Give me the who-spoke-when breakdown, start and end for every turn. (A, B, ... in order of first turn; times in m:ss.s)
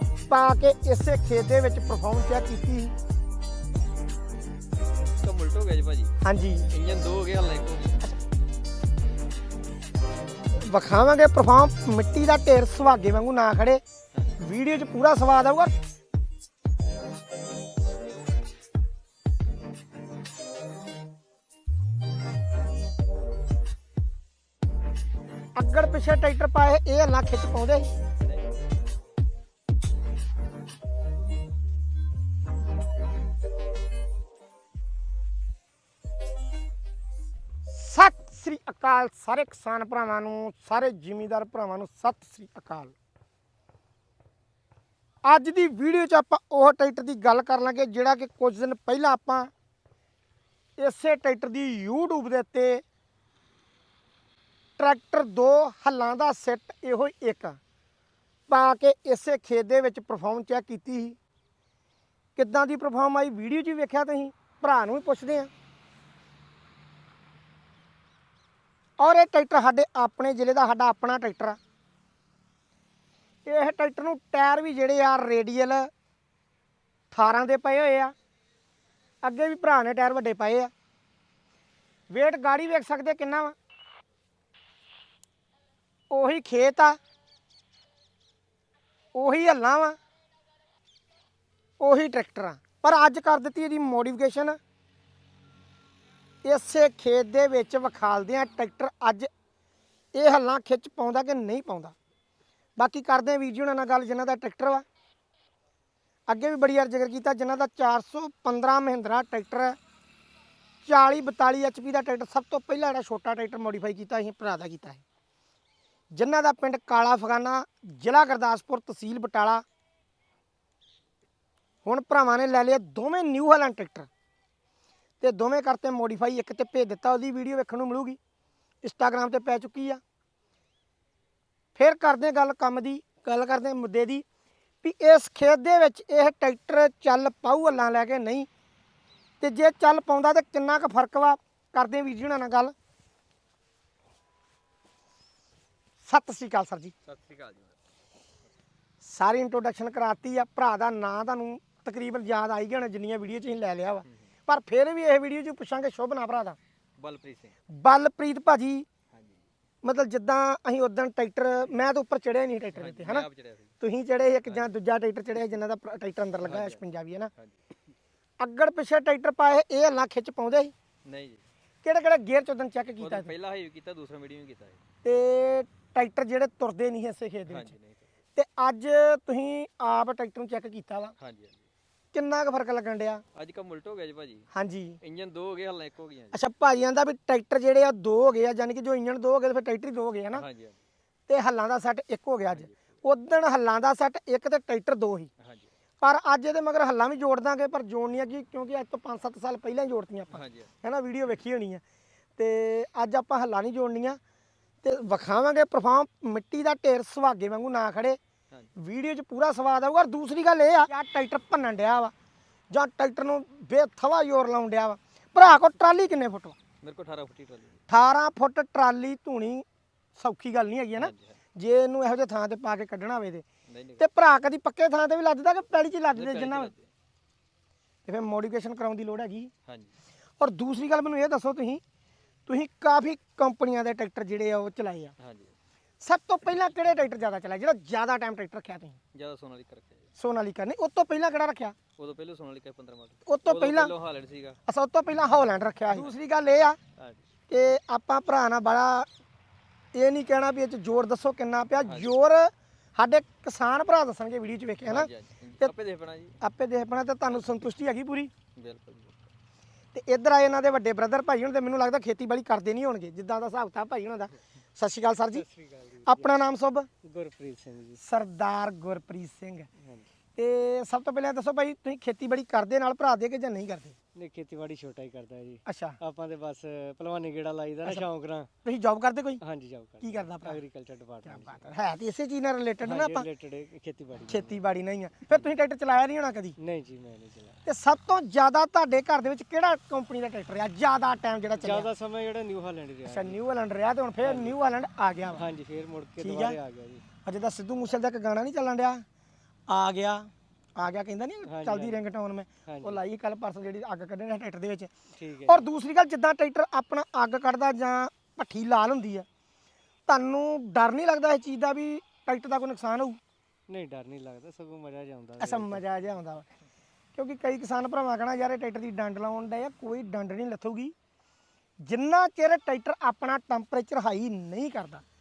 0:00.3-0:02.9 A
0:05.2-0:06.1 B
0:06.2-0:06.7 A
0:06.7-0:08.0 B
0:10.7-0:13.8 A
0:14.4-0:15.7 A
0:25.6-0:27.9 A
0:37.7-0:43.0 A
0:45.2-0:49.5 A
0:50.8-0:52.8 A
0:54.8-0:57.6 A
0:58.5-1:01.2 A
1:02.4-1:05.5 A
1:09.0-1:11.6 A
1:13.4-1:15.9 A
1:17.1-1:18.1 A
1:19.2-1:20.7 A
1:22.1-1:23.6 A
1:26.1-1:27.0 A
1:29.1-1:30.0 A
1:31.8-1:34.6 A
1:36.4-1:39.3 A
1:40.1-1:41.9 A
1:42.8-1:44.8 A
1:46.3-1:49.8 A
1:50.8-1:55.0 A
1:56.1-1:59.6 A
2:01.8-2:04.1 A
2:05.2-2:08.2 A
2:08.8-2:10.0 A
2:11.8-2:14.2 A
2:14.8-2:18.5 A
2:19.4-2:22.7 A
2:26.0-2:26.9 A
2:27.0-2:27.8 B
2:29.0-2:36.6 A
2:37.0-2:37.6 B
2:37.7-2:38.9 A
2:39.1-2:39.4 B
2:39.8-2:43.2 A
2:42.7-2:43.8 B
2:43.8-2:47.3 A
2:46.4-2:46.8 B
2:48.4-2:50.7 A
2:51.0-2:51.4 B
2:51.8-2:53.3 A
2:53.0-2:54.8 B
2:55.0-2:57.7 A
2:57.5-2:58.1 B
2:58.4-3:01.1 A
3:01.2-3:01.6 B
3:02.1-3:03.2 A
3:03.4-3:04.5 B
3:04.5-3:05.0 A
3:05.0-3:06.4 B
3:06.3-3:10.4 A
3:10.3-3:10.8 B
3:11.3-3:15.3 A
3:15.4-3:15.7 B
3:16.0-3:21.8 A
3:20.3-3:20.7 B
3:22.4-3:24.2 A
3:24.8-3:28.2 A
3:28.8-3:32.1 A
3:32.7-3:36.6 A
3:36.8-3:37.8 B
3:37.9-3:39.6 A
3:40.2-3:43.4 A
3:41.0-3:41.4 B
3:43.7-3:44.1 B
3:44.0-3:46.7 A
3:46.1-3:46.9 B
3:48.1-3:49.5 A
3:49.6-3:49.9 B
3:50.4-3:51.8 A
3:52.5-3:55.1 A
3:55.2-3:55.6 B
3:56.0-3:59.0 A
3:59.1-4:00.1 B
4:00.2-4:01.8 A
4:02.0-4:04.6 B
4:03.2-4:03.9 A
4:04.7-4:06.8 A
4:07.0-4:07.3 B
4:07.5-4:09.1 A
4:09.9-4:15.7 A
4:11.8-4:12.2 B
4:14.9-4:16.4 B
4:16.4-4:18.3 A
4:18.6-4:19.3 B
4:19.9-4:25.4 A
4:25.3-4:26.4 C
4:26.1-4:26.9 A
4:27.0-4:28.0 C
4:28.0-4:29.7 A
4:29.8-4:30.1 C
4:30.4-4:34.0 A
4:34.2-4:38.5 C
4:35.7-4:36.0 A
4:38.6-4:39.4 A
4:39.4-4:41.7 C
4:40.0-4:40.6 A
4:41.2-4:43.3 A
4:42.8-4:44.7 C
4:44.3-4:46.6 A
4:46.6-4:47.6 C
4:47.6-4:51.9 A
4:51.6-4:53.4 C
4:53.1-4:55.4 A
4:54.2-4:54.6 C
4:55.3-4:57.0 C
4:56.2-4:56.6 A
4:57.2-4:59.0 A
4:59.7-5:04.9 A
5:01.5-5:02.0 C
5:02.7-5:03.0 C
5:05.2-5:05.6 C
5:05.5-5:09.2 A
5:10.1-5:13.2 A
5:13.7-5:15.9 C
5:15.4-5:16.5 A
5:17.2-5:20.9 A
5:21.9-5:25.0 A